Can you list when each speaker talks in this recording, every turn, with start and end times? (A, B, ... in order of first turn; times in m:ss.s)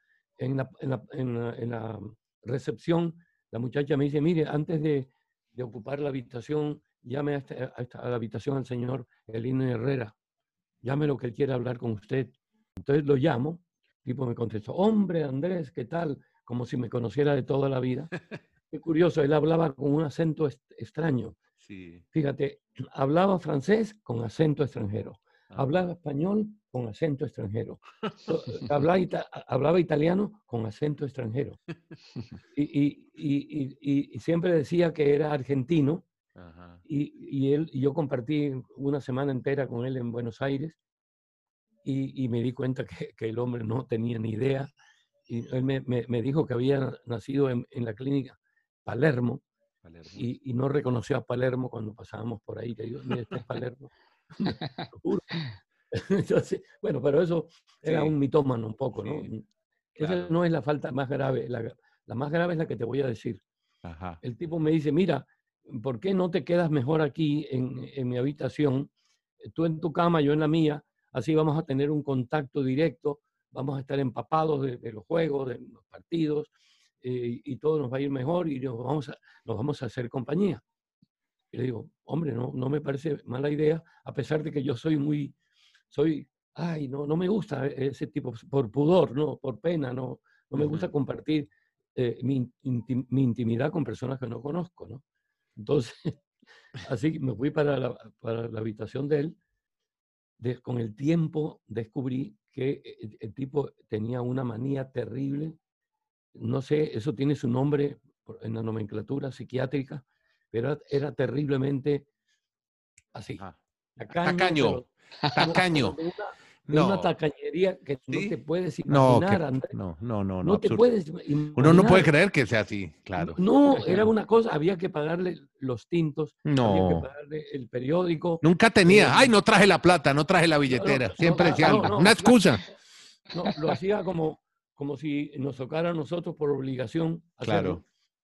0:00.4-0:10.2 A
0:10.8-0:18.1 A
0:18.7-0:21.4 A
0:21.6-0:22.0 B
0:22.1-0:31.6 A
0:32.5-0:36.0 A
0:36.4-0:36.8 B
0:36.9-0:40.8 A
0:41.8-0:44.7 A
0:45.3-0:49.4 A
0:49.8-0:50.2 B
0:50.2-0:55.4 A
0:55.9-1:03.4 A
0:57.8-0:58.1 B
0:59.0-0:59.3 B
1:00.0-1:00.3 B
1:03.8-1:04.2 B
1:04.2-1:08.9 A
1:09.5-1:20.6 A
1:21.5-1:25.4 A
1:25.9-1:35.0 A
1:30.6-1:30.9 B
1:35.6-1:36.2 A
1:36.8-1:39.4 A
1:40.4-1:45.6 A
1:46.4-1:52.1 A
1:53.1-1:53.4 A
1:54.0-1:59.8 A
1:54.1-1:56.0 B
1:56.7-1:57.1 B
1:58.1-1:58.4 B
1:58.9-2:00.8 B
2:00.4-2:02.1 A
2:01.6-2:04.1 B
2:03.2-2:09.3 A
2:06.5-2:07.1 B
2:08.4-2:12.7 B
2:10.7-2:12.4 A
2:13.3-2:17.8 A
2:17.4-2:17.8 B